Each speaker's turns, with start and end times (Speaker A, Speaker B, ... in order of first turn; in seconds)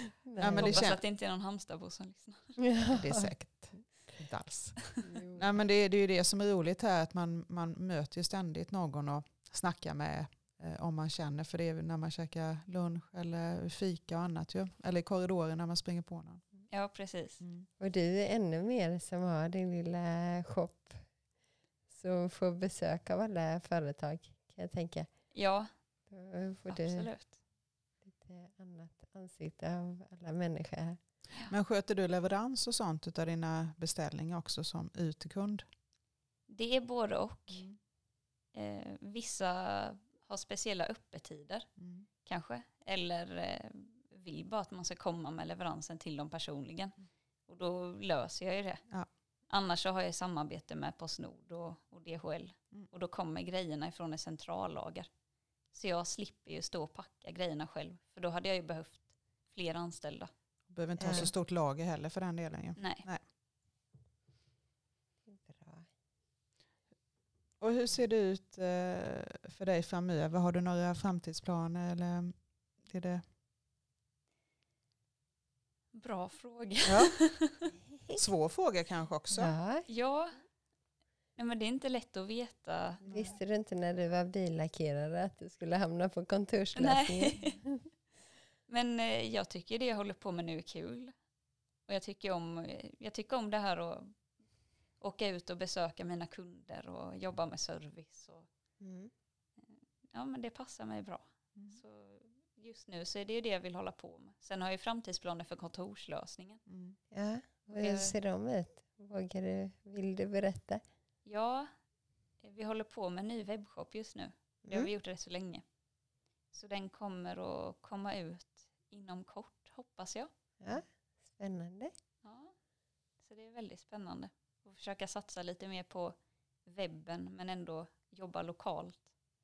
Speaker A: 0.3-0.8, 2.6-3.3, 5.0-5.5, 17.8-21.0, 21.9-25.1, 26.1-27.1, 28.0-31.0, 61.0-61.3, 65.3-65.9, 77.9-78.2, 79.3-79.9, 83.0-87.8, 98.8-99.1, 107.1-110.8, 120.6-121.9
Speaker B: 0.4-1.0, 2.9-16.4, 17.4-17.7, 31.5-35.6, 37.5-37.8, 41.8-42.1, 60.7-63.2, 67.6-72.3, 72.8-73.2, 76.8-77.2, 78.2-79.5, 83.1-83.3, 106.7-107.0
Speaker C: 0.6-2.6, 16.7-17.4, 25.3-25.7, 26.7-27.3, 36.5-37.6, 38.5-41.7, 42.2-48.8, 49.5-55.1, 55.7-60.3, 62.8-63.1, 75.9-77.7, 79.9-80.4, 81.3-83.3, 86.8-87.6, 88.7-91.1, 91.9-94.1, 95.0-98.5, 99.6-106.6, 107.7-108.1, 111.2-111.7, 112.4-115.6, 116.5-120.3, 122.2-122.5, 123.2-129.1